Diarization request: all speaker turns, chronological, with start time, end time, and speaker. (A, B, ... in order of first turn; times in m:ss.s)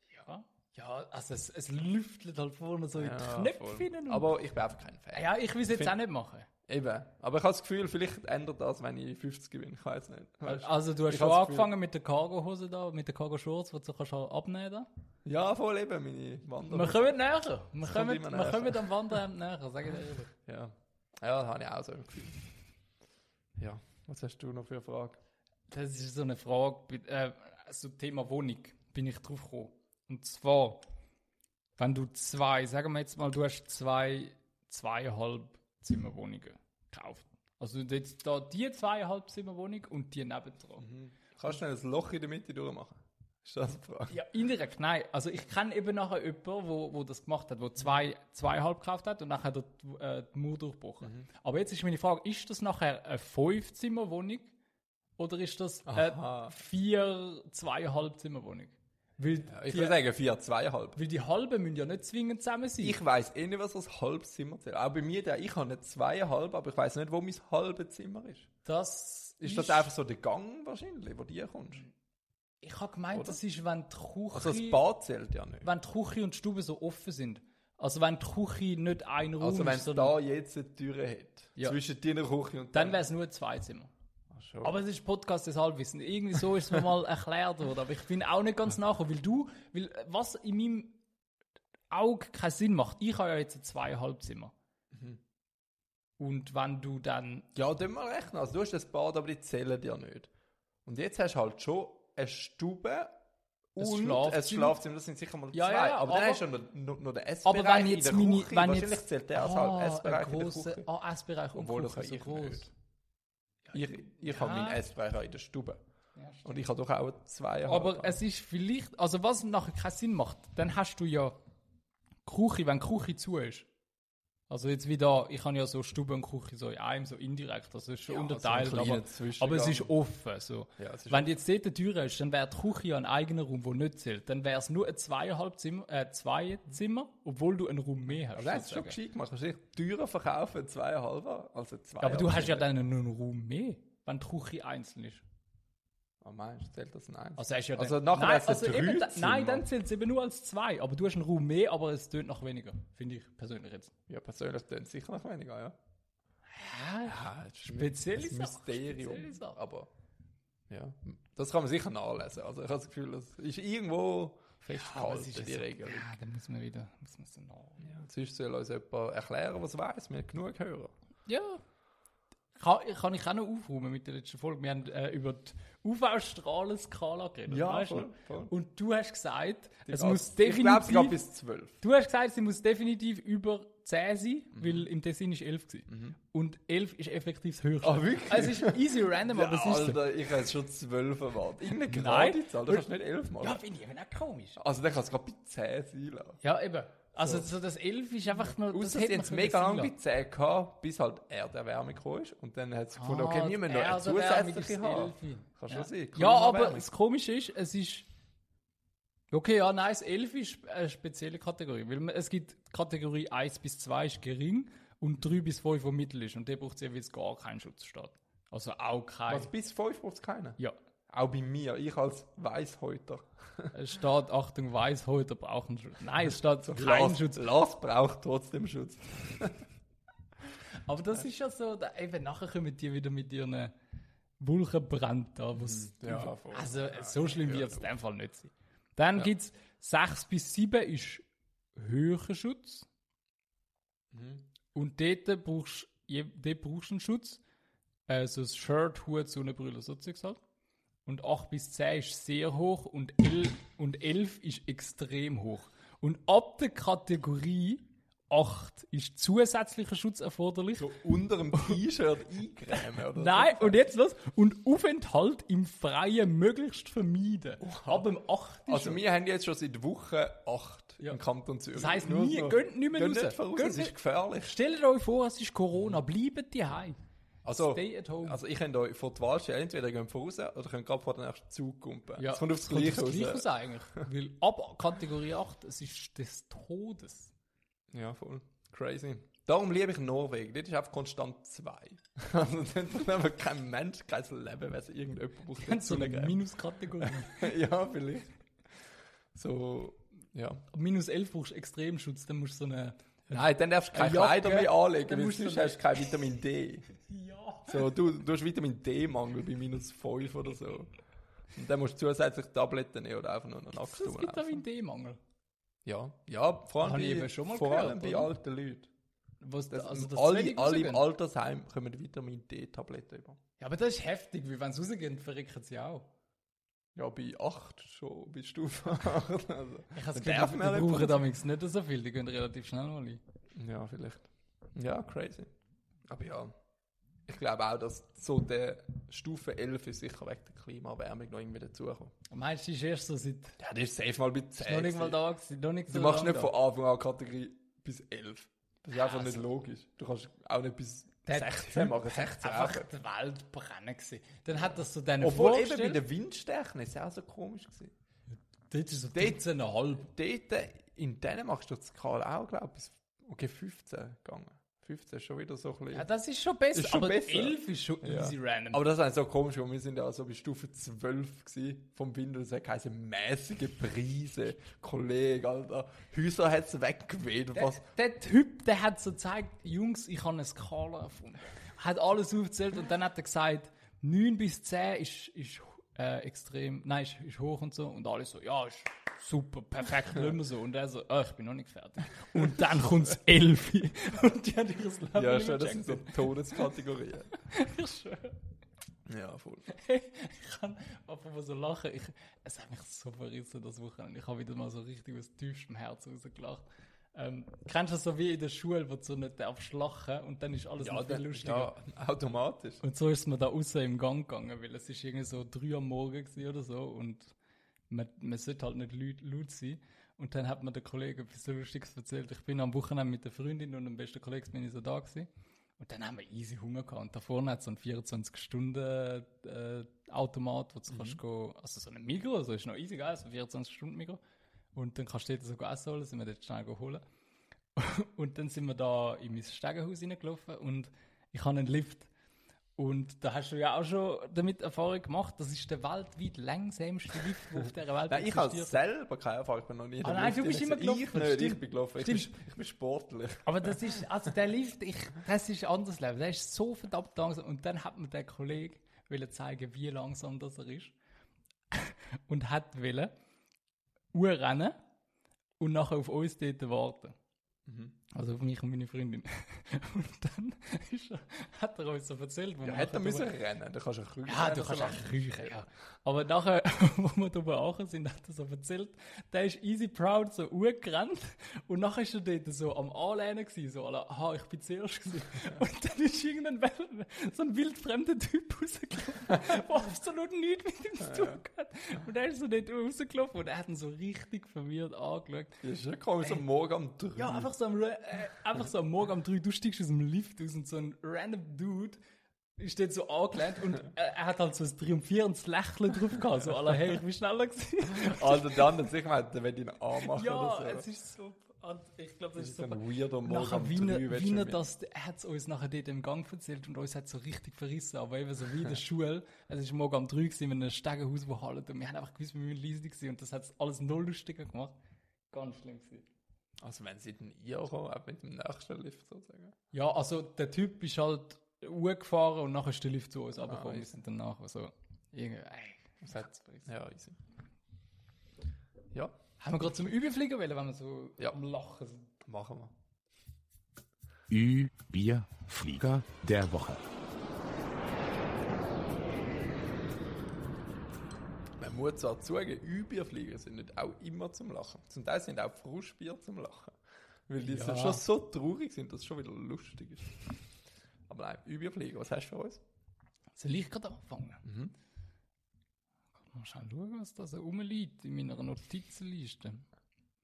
0:00.1-0:04.3 A
0:03.0-0:05.9 B
0:05.1-0:06.5 A
0:06.7-0:11.7 B
0:10.4-0:14.9 A
0:15.2-0:17.1 B
0:16.7-0:20.3 A
0:17.8-0:19.0 B
0:20.5-0:22.5 B
0:23.6-0:25.2 B
0:25.7-0:30.8 A
0:31.8-0:40.9 A
0:40.8-0:44.2 B
0:44.1-0:54.5 A
0:55.2-1:00.0 A
0:55.9-0:56.5 B
0:59.5-1:01.0 B
1:01.0-1:03.0 A
1:02.8-1:08.5 B
1:08.6-1:09.9 A
1:09.4-1:11.8 B
1:12.6-1:14.8 A
1:13.1-1:13.4 B
1:14.3-1:15.7 B
1:15.6-1:20.2 A
1:19.4-1:23.0 B
1:22.7-1:23.9 A
1:24.3-1:24.8 B
1:24.6-1:31.0 A
1:31.9-1:34.5 A
1:34.9-1:35.2 B
1:36.2-1:37.5 A
1:37.6-1:40.3 B
1:40.8-1:43.2 B
1:43.8-1:50.9 B
1:43.8-1:44.8 A
1:45.5-1:46.4 A
1:47.4-1:52.7 A
1:51.5-1:52.7 B
1:53.7-1:54.8 A
1:53.7-1:55.8 B
1:56.2-1:56.6 A
1:56.4-1:58.2 B
1:57.7-2:01.4 A
2:02.3-2:03.7 A
2:04.5-2:19.0 A
2:08.1-2:09.9 B
2:10.8-2:11.4 B
2:18.2-2:22.7 B
2:22.0-2:25.2 A
2:26.2-2:29.7 B
2:27.4-2:33.9 A
2:34.1-2:35.8 B
2:36.5-2:39.6 A
2:37.0-2:39.9 B
2:40.7-2:46.1 B
2:44.7-2:48.0 A
2:47.8-2:50.9 B
2:51.3-2:51.6 A
2:52.6-3:01.2 A
2:57.5-2:58.5 B
2:59.9-3:01.8 B
3:01.8-3:10.0 A
3:04.6-3:04.9 B
3:05.9-3:06.2 B
3:07.8-3:13.6 B
3:11.8-3:12.9 A
3:13.4-3:14.6 A
3:14.6-3:16.4 B
3:16.4-3:19.9 A
3:17.2-3:17.5 B
3:18.5-3:26.9 B
3:23.0-3:28.1 A
3:29.3-3:39.5 A
3:39.3-3:40.6 B
3:41.1-3:43.7 B
3:43.7-3:47.4 A
3:46.6-3:49.6 B
3:50.8-3:53.7 A
3:54.4-4:01.2 A
3:55.6-3:57.9 B
4:01.8-4:02.9 A
4:04.1-4:04.4 B
4:04.7-4:07.4 A
4:08.1-4:10.4 A
4:11.1-4:20.9 A
4:20.8-4:23.8 B
4:22.8-4:29.0 A
4:27.6-4:28.1 B
4:28.7-4:34.6 B
4:31.7-4:37.0 A
4:37.4-4:43.5 B
4:37.5-4:38.4 A
4:42.2-4:47.3 A
4:47.9-4:56.4 B
4:55.6-4:57.5 A
4:57.0-4:58.3 B
4:59.3-5:00.6 B
5:00.7-5:06.1 A
5:03.3-5:06.9 B
5:07.0-5:07.9 A
5:07.7-5:10.9 B
5:11.5-5:14.6 B
5:13.8-5:15.2 A
5:15.8-5:18.9 B
5:16.8-5:18.3 A
5:19.4-5:21.0 A
5:19.7-5:23.4 B
5:23.6-5:26.1 A
5:27.0-5:31.3 B
5:29.9-5:33.2 A
5:33.5-5:35.5 B
5:36.1-5:36.5 B
5:37.3-5:42.1 B
5:42.3-5:43.6 A
5:43.6-5:45.2 B
5:44.6-5:46.5 A
5:45.9-5:52.9 B
5:48.9-5:49.4 A
5:51.3-5:56.0 A
5:55.2-5:57.9 B
5:58.7-6:00.1 A
5:59.1-6:06.1 B
6:05.9-6:08.8 A
6:06.7-6:17.8 B
6:17.5-6:36.6 A
6:32.3-6:32.9 B
6:35.2-6:37.3 B
6:37.4-6:38.4 A
6:39.1-6:39.7 B
6:39.7-6:46.6 A
6:47.2-6:51.7 A
6:50.8-6:52.8 B
6:52.8-6:57.3 A
6:57.9-7:05.3 A
7:05.8-7:14.2 A
7:10.9-7:11.2 B
7:14.8-7:17.0 A
7:17.8-7:22.1 A
7:22.8-7:28.8 A
7:28.1-7:34.0 B
7:30.0-7:32.3 A
7:33.4-7:41.0 A
7:41.7-7:43.1 A
7:44.1-7:44.8 A
7:45.6-7:47.1 A
7:47.7-7:48.0 B
7:48.1-7:53.3 A
7:52.6-7:55.6 B
7:54.3-8:15.6 A
8:11.0-8:11.4 B
8:15.6-8:17.5 B
8:17.2-8:22.0 A
8:22.6-8:28.7 A
8:27.9-8:30.9 B
8:30.0-8:44.8 A
8:32.4-8:34.6 B
8:45.3-8:46.1 A
8:46.6-8:49.6 B
8:49.7-8:56.7 A
8:53.4-8:53.9 B
8:56.0-8:57.2 B
8:59.4-9:02.1 A
9:02.2-9:02.7 B
9:04.3-9:06.8 C
9:11.6-9:16.8 B
9:17.3-9:20.4 B
9:17.4-9:18.0 A
9:21.1-9:22.6 B
9:23.4-9:24.4 A
9:24.4-9:24.7 B
9:26.2-9:29.7 A